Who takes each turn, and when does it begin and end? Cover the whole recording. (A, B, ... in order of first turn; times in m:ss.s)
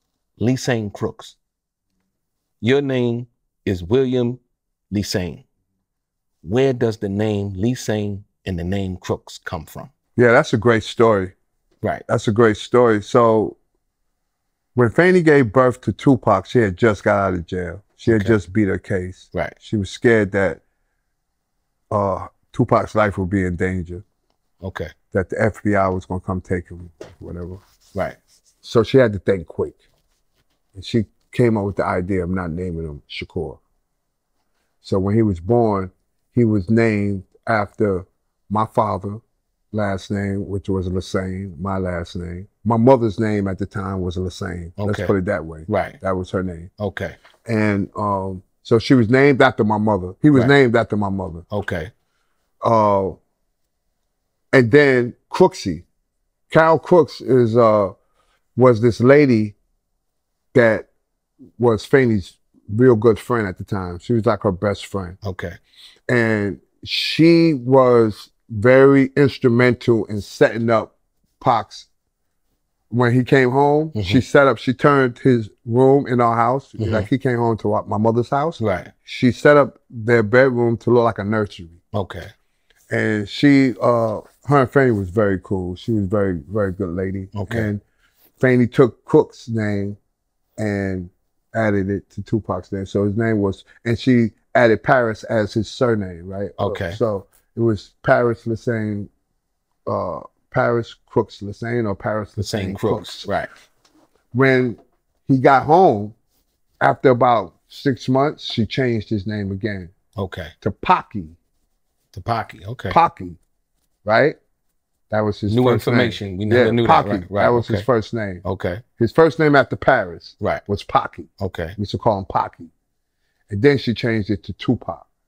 0:00.4-0:01.4 A
0:02.6-0:05.4 A
0:06.4-0:09.9 A
0:10.2-0:11.3 B
0:12.1-0:13.6 B
0:14.7-0:20.6 B
0:18.0-0:18.3 A
0:21.9-0:24.0 B
0:24.6-0:24.9 A
0:25.1-0:27.6 B
0:28.6-0:29.8 B
0:30.7-0:33.6 B
0:34.8-0:46.7 B
0:44.8-0:45.1 A
0:45.7-0:46.0 A
0:46.8-0:47.2 A
0:47.4-0:51.4 B
0:51.5-0:51.9 A
0:52.6-0:53.2 B
0:54.5-0:55.8 B
0:56.5-0:58.0 B
0:58.6-0:59.6 B
1:00.5-1:00.9 B
1:01.6-1:05.2 B
1:05.2-1:05.6 A
1:06.1-1:11.9 B
1:12.9-1:21.8 B
1:13.9-1:14.2 A
1:16.8-1:17.1 A
1:18.6-1:18.9 A
1:21.9-1:22.3 A
1:22.9-1:27.8 B
1:27.3-1:27.7 A
1:28.4-1:30.0 B
1:30.6-1:39.1 B
1:36.6-1:37.0 A
1:39.8-1:43.3 B
1:42.4-1:43.5 A
1:44.3-1:46.1 B
1:46.8-1:49.9 B
1:50.2-1:50.5 A
1:50.6-1:51.4 B
1:52.1-1:53.0 A
1:52.9-1:53.4 B
1:54.0-1:54.4 B
1:55.1-1:58.4 B
1:55.5-1:57.8 A
1:58.4-1:58.8 A
1:59.0-2:02.7 B
2:01.4-2:01.8 A
2:03.5-2:05.0 B